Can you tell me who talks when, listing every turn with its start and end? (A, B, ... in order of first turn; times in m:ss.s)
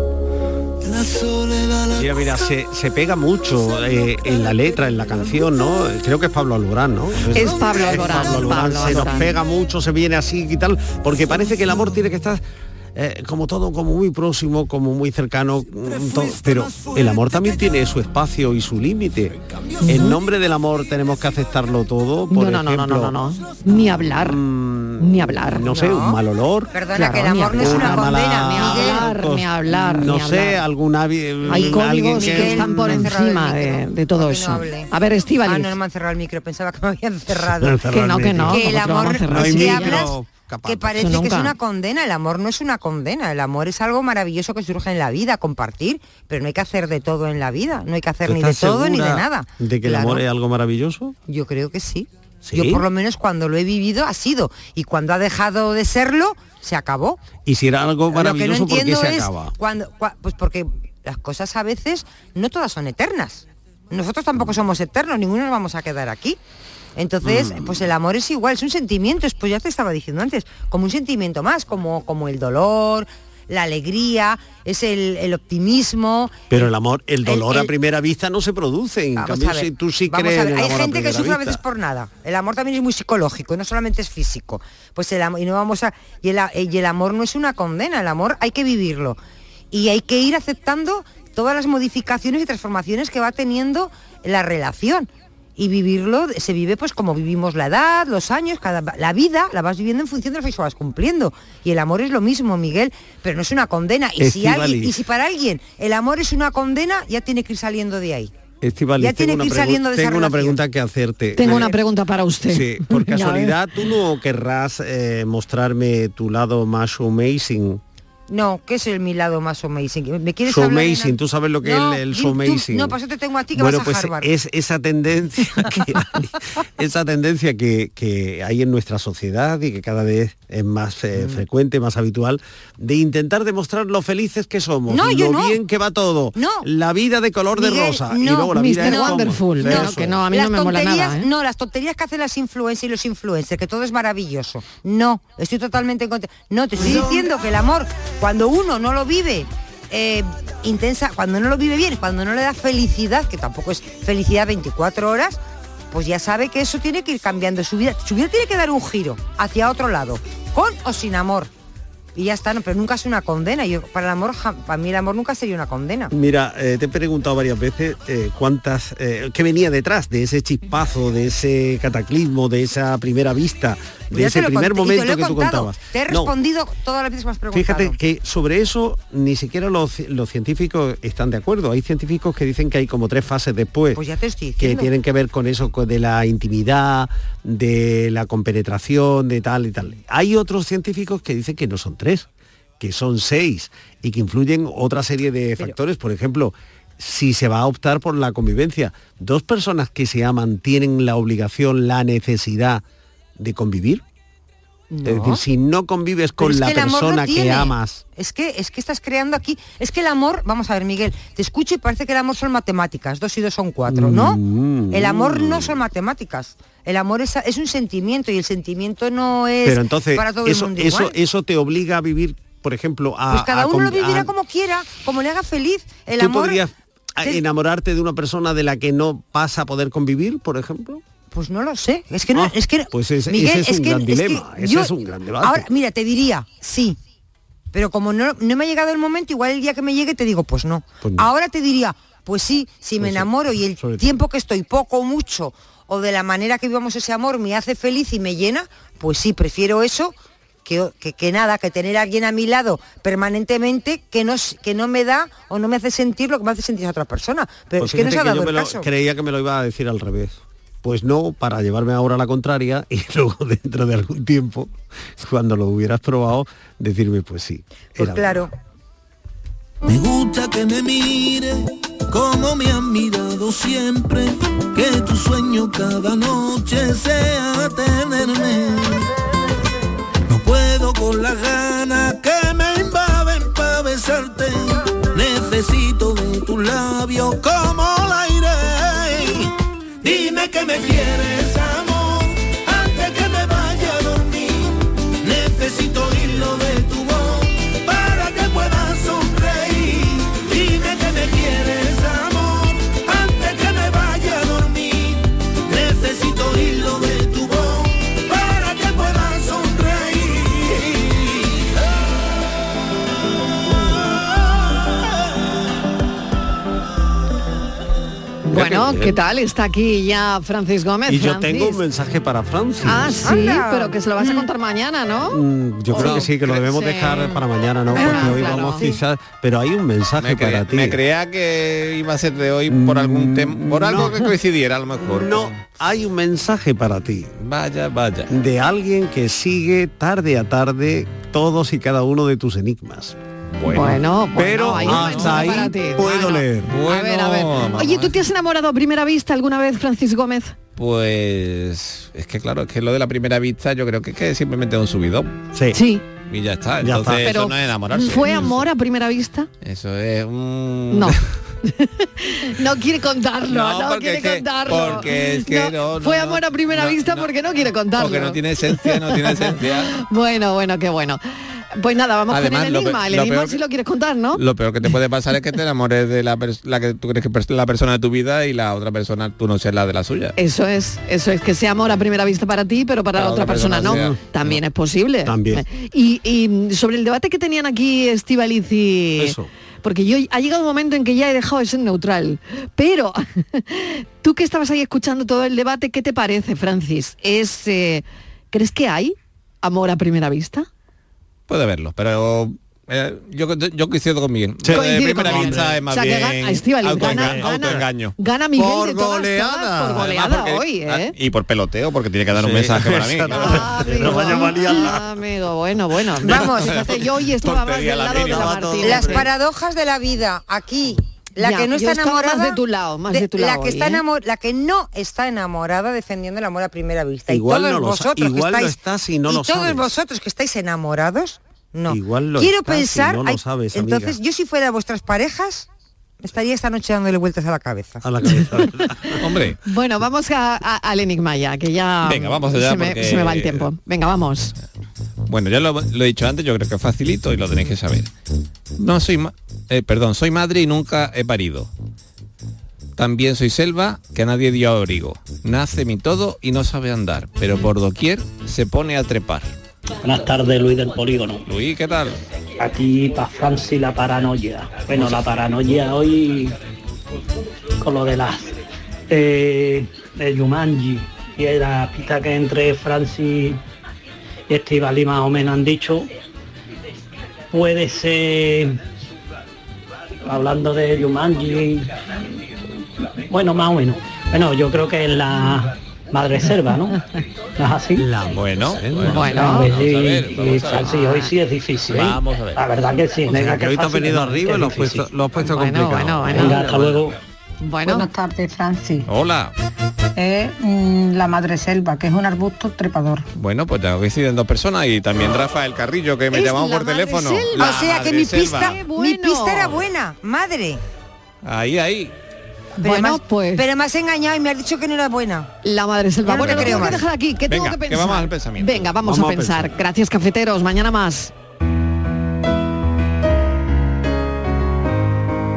0:00.8-0:02.0 A
0:02.0-0:12.4 B
0:04.2-0:04.6 A
0:07.3-0:09.3 C
0:12.9-0:23.1 B
0:19.8-0:20.2 C
0:22.3-0:24.4 C
0:24.2-0:26.7 B
0:25.0-0:25.7 C
0:25.6-0:26.2 D
0:26.7-0:29.0 D
0:26.9-0:30.6 C
0:27.5-0:33.1 B
0:31.4-0:37.8 D
0:31.5-0:35.7 C
0:37.6-0:38.7 B
0:37.9-0:40.1 C
0:38.4-0:50.2 D
0:39.3-0:41.1 B
0:41.0-0:41.5 C
0:48.2-0:51.2 B
0:51.3-0:57.2 D
0:52.4-0:52.8 B
0:57.4-0:59.5 B
0:58.1-1:06.4 D
1:07.0-1:16.7 D
1:07.2-1:07.8 B
1:16.5-1:21.6 B
1:17.2-1:17.7 D
1:19.2-1:29.2 D
1:29.7-1:48.3 D
1:44.2-1:45.0 B
1:48.6-1:51.7 B
1:49.0-1:50.6 D
1:51.4-1:53.5 C
1:52.5-1:57.8 B
1:58.3-2:04.3 D
2:00.5-2:03.0 B
2:03.5-2:20.2 B
2:14.9-2:15.6 D
2:16.3-2:16.7 D
2:17.5-2:35.4 D
2:18.5-2:21.3 C
2:35.9-2:41.5 D
2:42.1-2:46.1 D
2:46.1-2:56.3 B
2:54.1-2:58.0 D
2:57.5-3:04.0 B
3:03.9-3:04.9 D
3:04.6-3:12.3 B
3:12.8-3:22.8 B
3:23.4-3:24.0 B
3:24.9-3:25.4 D
3:25.0-3:28.0 B
3:26.4-3:41.2 D
3:33.9-3:35.8 B
3:39.6-3:44.3 B
3:43.3-3:46.6 D
3:46.2-3:51.0 B
3:51.3-3:57.0 D
3:52.3-3:55.6 B
3:57.7-4:18.9 D
4:01.0-4:01.3 B
4:03.0-4:04.2 B
4:17.8-4:28.4 B
4:27.9-4:28.5 D
4:29.8-4:39.1 A
4:40.3-4:49.5 A
4:50.0-5:11.7 A
5:18.4-5:21.8 C
5:18.5-5:19.1 B
5:21.1-5:23.2 B
5:22.8-5:25.4 C
5:23.2-5:24.5 D
5:25.2-5:31.0 B
5:25.9-5:28.8 C
5:28.0-5:28.4 E
5:30.2-5:35.6 E
5:32.7-5:34.3 B
5:35.0-5:37.4 B
5:37.4-5:38.3 E
5:38.3-5:43.2 B
5:43.6-5:45.7 E
5:43.7-5:50.6 C
5:44.4-5:46.7 B
5:46.6-5:48.2 E
5:50.7-5:55.3 E
5:55.5-5:55.8 B
5:55.7-5:56.0 C
5:56.3-5:58.7 E
5:56.8-5:57.4 B
5:57.2-5:59.5 C
5:59.6-6:01.2 E
6:00.9-6:11.2 C
6:03.4-6:07.4 E
6:07.9-6:09.9 E
6:11.7-6:14.4 C
6:12.3-6:13.6 E
6:14.3-6:20.3 E
6:20.4-6:40.7 C
6:23.1-6:24.6 E
6:23.8-6:24.2 B
6:25.2-6:25.6 B
6:29.2-6:29.5 B
6:41.5-6:48.1 E
6:44.6-6:45.8 B
6:44.7-6:51.1 C
6:47.0-6:47.8 B
6:48.6-6:50.1 B
6:49.9-6:54.4 E
6:52.3-6:55.1 B
6:53.3-6:59.3 C
6:56.2-6:56.9 D
6:56.3-6:59.0 E
6:58.1-6:59.3 B
6:58.8-7:15.7 D
7:01.4-7:04.0 C
7:07.3-7:10.0 B
7:11.9-7:14.2 B
7:16.2-7:18.0 D
7:18.0-7:19.2 B
7:18.3-7:18.7 C
7:19.2-7:19.6 E
7:19.6-7:24.5 C
7:22.0-7:23.7 E
7:25.3-7:28.1 E
7:28.8-7:31.7 E
7:33.0-7:39.5 E
7:40.0-7:41.4 F
7:41.4-7:42.2 E
7:42.6-7:46.6 F
7:47.8-7:48.5 F
7:49.1-7:53.6 F
7:54.5-7:56.1 F
7:57.5-7:58.8 F
8:00.2-8:01.9 F
8:03.3-8:07.0 F
8:07.6-8:08.0 F
8:08.0-8:09.3 B
8:08.3-8:11.0 E
8:09.1-8:09.7 C
8:09.2-8:15.1 F
8:10.8-8:11.3 C
8:11.9-8:12.6 E
8:13.3-8:17.0 B
8:15.4-8:16.7 C
8:16.3-8:17.2 F
8:17.6-8:18.1 C
8:17.8-8:19.1 G
8:19.0-8:19.5 E
8:20.2-8:23.2 G
8:23.3-8:28.8 E
8:26.3-8:29.8 C
8:27.6-8:30.8 D
8:31.4-8:32.1 E
8:32.8-8:35.5 D
8:32.8-8:33.6 C
8:35.6-8:41.3 C
8:36.2-8:37.0 D
8:36.4-8:38.9 E
8:39.0-8:39.7 B